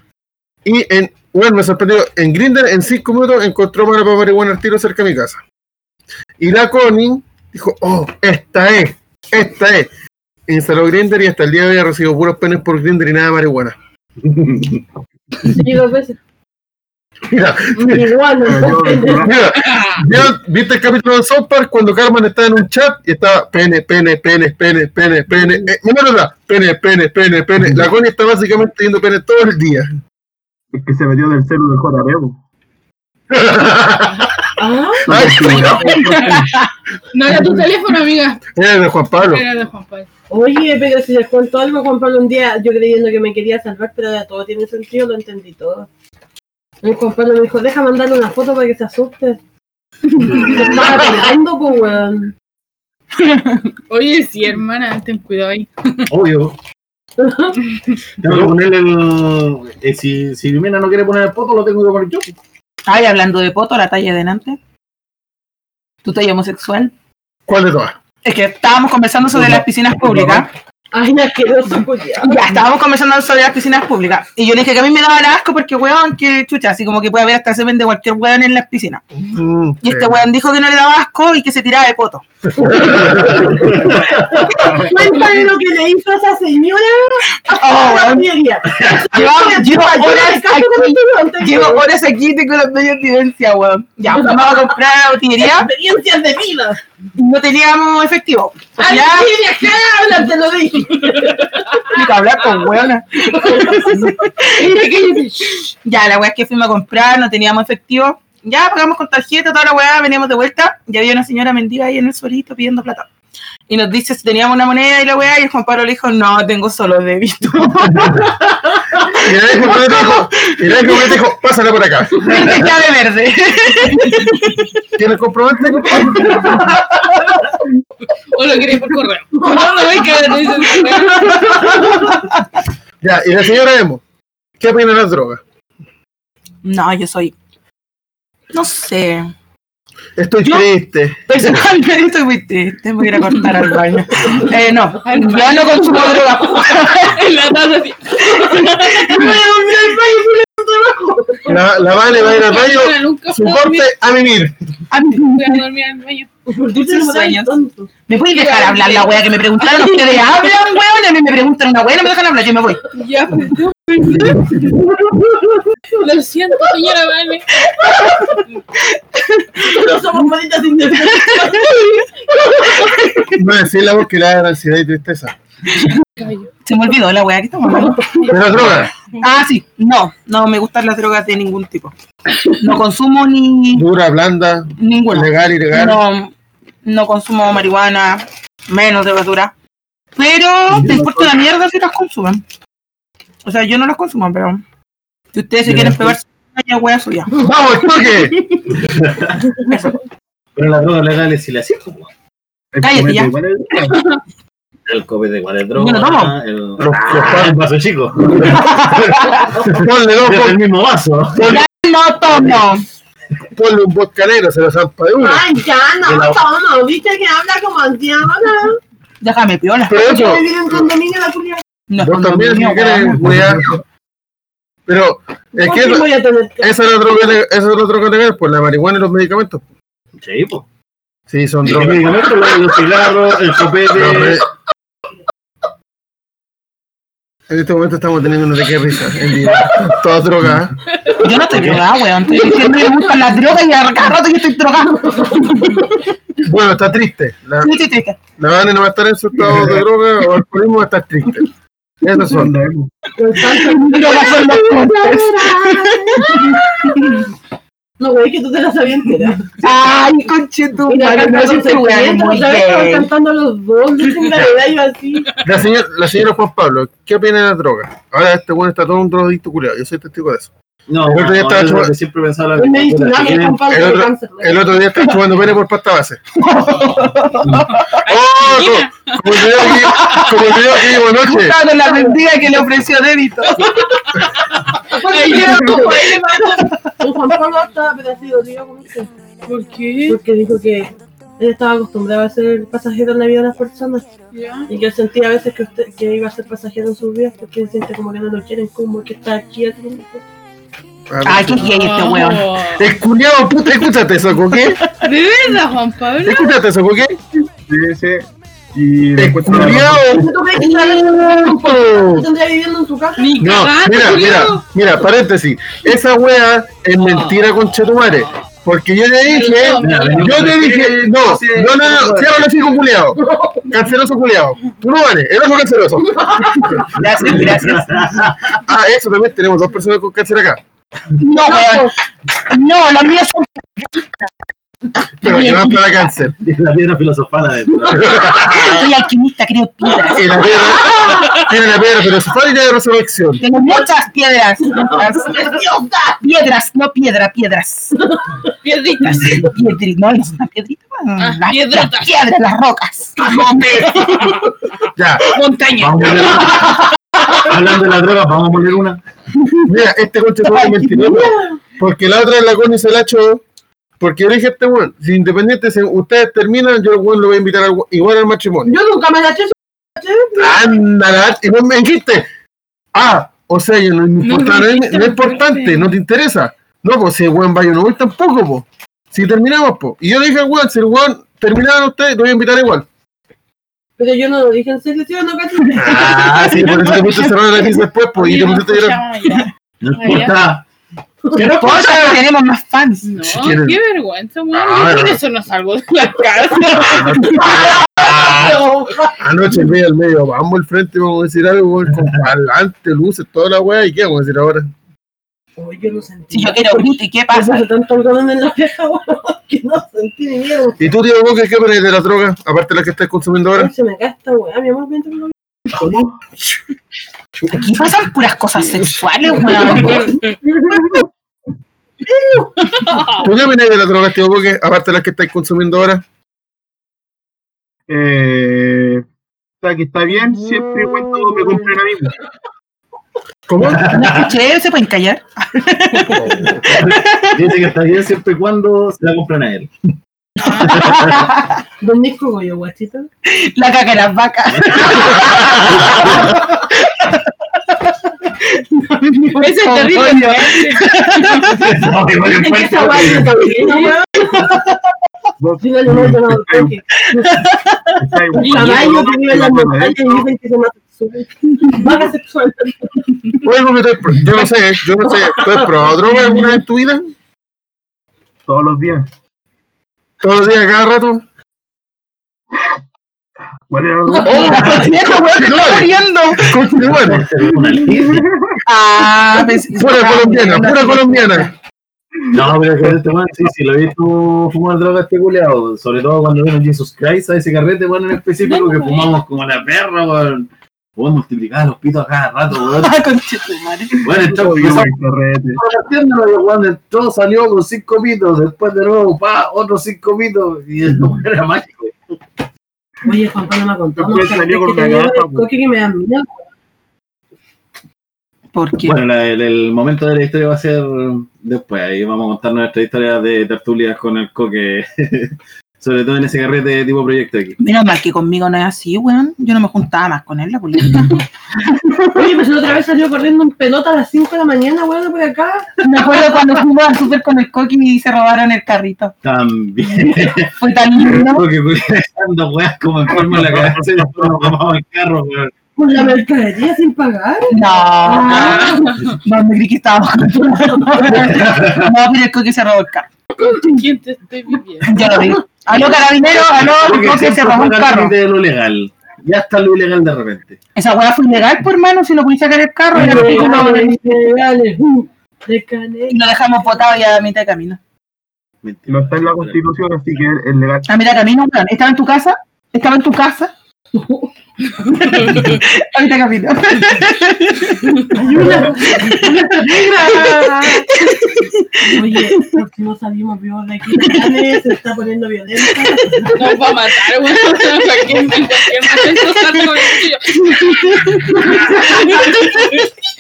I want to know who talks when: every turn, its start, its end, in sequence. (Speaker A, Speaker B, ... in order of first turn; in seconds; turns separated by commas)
Speaker A: 0.6-5.4, Speaker A: 6.4-9.9, Speaker A: 10.5-13.7, Speaker B: 14.2-14.8, Speaker C: 15.4-16.2, Speaker A: 17.3-18.1, Speaker C: 17.7-19.3, Speaker D: 18.4-19.4, Speaker A: 19.2-29.9, Speaker D: 30.7-32.4, Speaker A: 33.3-34.3, Speaker C: 34.6-35.7, Speaker D: 35.0-36.6, Speaker A: 35.1-36.1, Speaker E: 35.9-36.4, Speaker F: 36.2-36.6, Speaker E: 37.1-38.4, Speaker D: 37.3-37.6, Speaker A: 38.5-39.4, Speaker E: 39.2-40.1, Speaker C: 40.3-45.9, Speaker C: 46.8-49.4, Speaker C: 50.2-52.3, Speaker F: 53.2-53.7, Speaker E: 53.9-56.1, Speaker B: 56.1-56.5, Speaker C: 57.2-57.6, Speaker B: 58.2-62.3, Speaker A: 58.2-58.6, Speaker F: 62.9-64.6, Speaker F: 66.0-66.9, Speaker A: 67.5-68.0, Speaker F: 68.2-70.5, Speaker D: 69.4-70.4, Speaker C: 70.9-72.6, Speaker F: 72.2-79.0, Speaker A: 79.1-80.2, Speaker F: 79.8-82.2, Speaker A: 82.6-83.5, Speaker C: 82.6-91.9, Speaker B: 83.2-84.3, Speaker D: 84.5-85.4, Speaker F: 87.5-88.3, Speaker B: 88.7-89.0, Speaker F: 89.1-95.7, Speaker C: 94.1-94.8, Speaker C: 95.4-96.8, Speaker F: 97.2-99.3, Speaker C: 98.8-101.9, Speaker F: 101.9-104.7, Speaker C: 103.3-105.1, Speaker E: 104.5-105.7, Speaker F: 105.8-113.1, Speaker F: 113.7-118.3, Speaker F: 119.0-121.0, Speaker A: 119.1-122.3, Speaker F: 122.1-124.9, Speaker A: 125.0-126.6, Speaker F: 126.5-127.3, Speaker E: 128.3-131.9, Speaker C: 129.4-129.7, Speaker C: 131.2-131.8, Speaker F: 131.3-132.2, Speaker A: 133.0-134.0, Speaker A: 134.6-135.4, Speaker F: 136.6-137.3, Speaker F: 138.5-139.3, Speaker A: 140.2-141.7, Speaker F: 141.3-147.2, Speaker E: 145.0-149.4, Speaker C: 148.2-151.8, Speaker A: 151.5-154.5, Speaker E: 152.1-153.9, Speaker F: 154.9-155.6, Speaker E: 155.1-156.3, Speaker C: 156.5-157.9, Speaker F: 156.6-157.5, Speaker F: 158.1-162.8, Speaker E: 158.3-160.2, Speaker E: 162.9-164.7, Speaker E: 165.9-167.5, Speaker F: 167.7-169.7, Speaker C: 167.9-168.4, Speaker C: 169.6-172.9, Speaker F: 171.0-171.9, Speaker F: 172.7-173.3, Speaker A: 173.3-175.3, Speaker E: 176.2-176.5, Speaker F: 176.6-178.6, Speaker C: 177.9-178.3, Speaker A: 178.3-178.9, Speaker F: 179.1-181.9, Speaker F: 182.6-183.8, Speaker A: 183.7-186.0, Speaker F: 184.8-186.3, Speaker F: 186.8-189.5, Speaker F: 190.2-192.4, Speaker D: 190.7-191.3, Speaker F: 193.4-194.6, Speaker F: 195.3-197.3, Speaker D: 195.7-196.0, Speaker B: 195.8-196.1, Speaker A: 197.4-198.4, Speaker B: 198.7-199.4, Speaker F: 199.7-199.9, Speaker B: 200.6-202.1, Speaker D: 202.7-204.0, Speaker F: 202.8-203.3, Speaker B: 204.9-209.2, Speaker F: 205.7-206.3, Speaker A: 206.8-207.6, Speaker A: 208.3-210.6, Speaker F: 208.6-209.5, Speaker B: 209.7-211.6, Speaker A: 211.3-211.7, Speaker F: 211.4-212.9, Speaker A: 213.5-215.4, Speaker C: 215.2-218.8, Speaker B: 216.0-216.4, Speaker F: 219.2-220.0, Speaker A: 219.9-220.9, Speaker C: 219.9-221.6, Speaker F: 221.9-223.3, Speaker A: 222.0-223.8, Speaker A: 224.9-226.1, Speaker C: 225.5-226.8, Speaker A: 226.6-229.6, Speaker B: 230.2-230.7, Speaker A: 231.3-232.2, Speaker B: 231.6-234.4, Speaker A: 233.9-234.4, Speaker A: 237.5-240.7, Speaker F: 241.2-246.0, Speaker B: 241.5-242.0, Speaker C: 245.0-245.8, Speaker A: 246.4-247.7, Speaker F: 247.6-248.2, Speaker A: 248.4-251.5, Speaker D: 249.3-249.8, Speaker A: 252.0-252.5, Speaker D: 252.3-252.9, Speaker C: 253.2-257.2, Speaker F: 253.4-257.3, Speaker C: 258.0-259.5, Speaker F: 259.6-263.1, Speaker C: 260.9-265.4, Speaker A: 265.4-270.5, Speaker B: 270.9-273.7, Speaker A: 271.0-271.9, Speaker C: 272.5-274.9, Speaker A: 273.7-276.2, Speaker F: 276.4-278.1, Speaker E: 277.7-279.7, Speaker A: 278.1-281.6, Speaker F: 279.6-283.9, Speaker C: 284.9-286.4, Speaker E: 284.9-286.7, Speaker F: 286.6-286.9, Speaker C: 287.0-289.1, Speaker E: 289.4-290.2, Speaker C: 290.1-294.1, Speaker E: 294.3-294.7, Speaker C: 294.7-300.2, Speaker A: 301.1-301.8, Speaker F: 301.2-302.5, Speaker E: 301.6-302.9, Speaker A: 302.7-304.8, Speaker E: 304.9-306.6, Speaker A: 306.2-307.2, Speaker D: 307.6-310.2, Speaker A: 309.2-312.3, Speaker C: 310.1-313.4, Speaker E: 313.2-314.6, Speaker A: 313.4-326.9, Speaker E: 319.2-320.6, Speaker B: 319.8-322.3, Speaker D: 321.2-322.2, Speaker C: 323.2-323.7, Speaker C: 326.1-326.9, Speaker F: 326.9-328.3, Speaker B: 327.0-328.6, Speaker A: 328.5-330.6, Speaker F: 331.2-333.9, Speaker C: 331.4-331.9, Speaker F: 335.2-335.8, Speaker A: 335.2-336.4, Speaker B: 336.4-338.7, Speaker A: 337.9-338.8, Speaker F: 338.6-340.5, Speaker A: 340.1-343.4, Speaker C: 340.9-341.2, Speaker F: 343.4-345.6, Speaker C: 344.7-346.2, Speaker F: 346.2-348.1, Speaker E: 348.6-349.4, Speaker F: 349.0-354.4, Speaker E: 351.2-352.2, Speaker A: 354.9-355.4, Speaker F: 355.2-356.4, Speaker B: 355.8-359.0, Speaker A: 359.6-363.4, Speaker F: 360.4-361.3, Speaker C: 361.1-361.6, Speaker A: 364.0-368.7, Speaker C: 368.6-370.6, Speaker A: 370.4-372.3, Speaker A: 372.9-382.9, Speaker E: 374.2-375.9, Speaker C: 384.0-386.5, Speaker A: 385.7-389.0, Speaker F: 385.8-387.2, Speaker E: 388.1-390.4, Speaker B: 389.8-390.6, Speaker F: 391.3-393.1, Speaker B: 391.3-392.2, Speaker E: 393.0-397.7, Speaker A: 393.2-393.8, Speaker A: 394.5-395.2, Speaker A: 396.7-398.6, Speaker F: 396.9-397.3, Speaker C: 397.4-399.2, Speaker A: 399.2-404.7, Speaker C: 405.6-410.8, Speaker F: 406.3-407.6, Speaker A: 410.8-413.7, Speaker C: 413.5-415.4, Speaker D: 415.7-416.1, Speaker F: 417.5-420.2, Speaker E: 419.8-420.3, Speaker A: 423.1-426.0, Speaker D: 427.9-429.1, Speaker D: 429.6-432.2, Speaker A: 433.5-433.9, Speaker B: 433.6-434.3, Speaker F: 433.9-437.4, Speaker B: 436.7-439.7, Speaker F: 440.4-441.6, Speaker B: 440.6-441.3, Speaker C: 441.8-443.1, Speaker F: 443.2-451.8, Speaker B: 444.5-446.4, Speaker E: 449.4-451.6, Speaker B: 451.6-453.4, Speaker C: 452.3-454.5, Speaker D: 455.4-456.7, Speaker C: 455.6-457.5, Speaker F: 457.4-457.7, Speaker D: 458.0-460.2, Speaker C: 458.3-463.4, Speaker E: 458.4-458.8, Speaker A: 463.4-467.1, Speaker C: 465.0-466.1, Speaker D: 468.5-469.1, Speaker A: 470.2-471.2, Speaker D: 473.7-475.0, Speaker F: 474.1-476.7, Speaker A: 474.3-477.3, Speaker B: 476.8-478.2, Speaker D: 477.4-478.6, Speaker F: 478.6-481.5, Speaker A: 479.7-481.5, Speaker B: 482.3-493.0, Speaker E: 488.4-489.1, Speaker F: 492.6-494.2, Speaker D: 494.0-495.6, Speaker B: 494.0-494.9, Speaker B: 495.5-502.1, Speaker C: 503.0-506.4, Speaker D: 504.0-505.5, Speaker F: 508.5-508.9, Speaker B: 508.8-517.6, Speaker F: 517.6-521.2, Speaker F: 521.8-522.1, Speaker C: 522.1-525.7, Speaker F: 525.8-529.1, Speaker B: 529.2-535.5, Speaker F: 530.6-531.5, Speaker D: 533.1-534.5, Speaker C: 535.8-539.0, Speaker F: 537.5-543.1, Speaker E: 538.3-539.2, Speaker B: 541.1-541.9, Speaker E: 543.4-545.2, Speaker F: 544.8-548.1, Speaker B: 546.5-550.6, Speaker F: 550.8-554.3, Speaker C: 552.9-556.2, Speaker F: 556.1-557.8, Speaker B: 558.6-559.6, Speaker D: 558.9-560.9, Speaker F: 560.9-563.5, Speaker C: 563.9-564.3, Speaker F: 565.0-572.6, Speaker E: 565.2-565.5, Speaker C: 568.1-570.9, Speaker C: 571.9-576.6, Speaker F: 573.9-574.5, Speaker F: 575.8-576.3, Speaker E: 576.3-582.9, Speaker F: 577.4-578.0, Speaker F: 579.2-579.7, Speaker F: 580.4-582.9